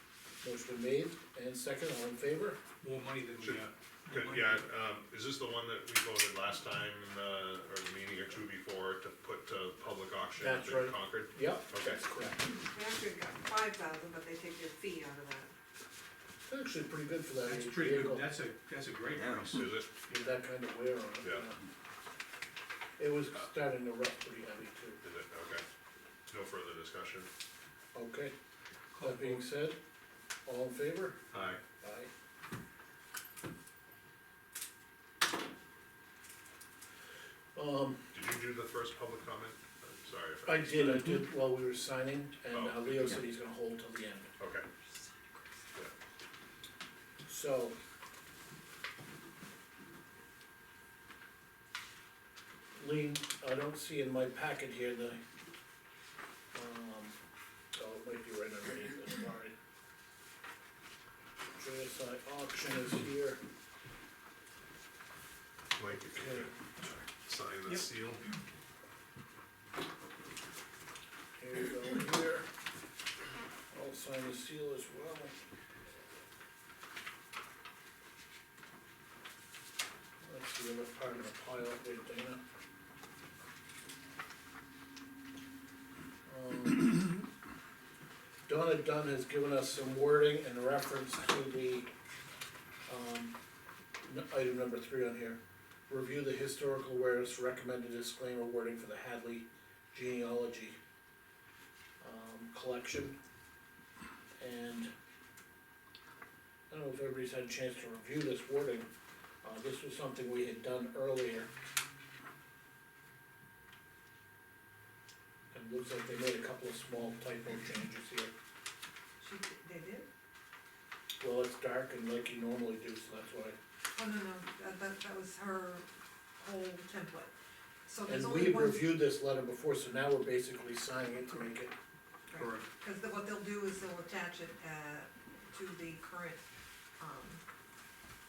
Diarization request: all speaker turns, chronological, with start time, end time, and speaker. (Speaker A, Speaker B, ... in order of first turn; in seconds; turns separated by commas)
Speaker A: 0.4-2.6, Speaker B: 2.8-4.6, Speaker C: 3.4-12.2, Speaker A: 10.4-12.5, Speaker D: 12.4-15.5, Speaker A: 16.5-18.3, Speaker B: 17.4-19.7, Speaker C: 19.4-19.9, Speaker A: 20.1-21.6, Speaker A: 23.0-25.0, Speaker C: 25.0-25.6, Speaker C: 26.3-27.3, Speaker A: 27.9-28.3, Speaker B: 28.9-29.4, Speaker A: 29.0-29.8, Speaker A: 30.4-32.1, Speaker C: 31.3-31.6, Speaker A: 37.5-38.1, Speaker C: 38.1-41.1, Speaker A: 40.4-44.3, Speaker C: 42.5-43.2, Speaker C: 44.4-44.6, Speaker D: 44.9-45.4, Speaker A: 47.2-47.8, Speaker A: 52.8-55.2, Speaker A: 56.5-57.1, Speaker A: 57.7-59.5, Speaker A: 61.5-63.4, Speaker C: 65.7-68.3, Speaker A: 66.0-66.5, Speaker A: 71.4-72.5, Speaker A: 73.7-75.3, Speaker A: 80.2-82.4, Speaker A: 86.2-87.2, Speaker A: 88.5-91.9, Speaker A: 92.9-93.3, Speaker A: 94.0-100.8, Speaker A: 102.0-103.2, Speaker A: 104.4-104.9, Speaker A: 106.7-108.9, Speaker A: 109.4-111.5, Speaker A: 115.5-118.3, Speaker D: 119.2-120.1, Speaker A: 121.2-123.6, Speaker D: 123.9-127.3, Speaker D: 127.9-128.9, Speaker A: 128.1-131.7, Speaker D: 132.3-136.4, Speaker B: 132.3-132.6, Speaker D: 137.0-137.4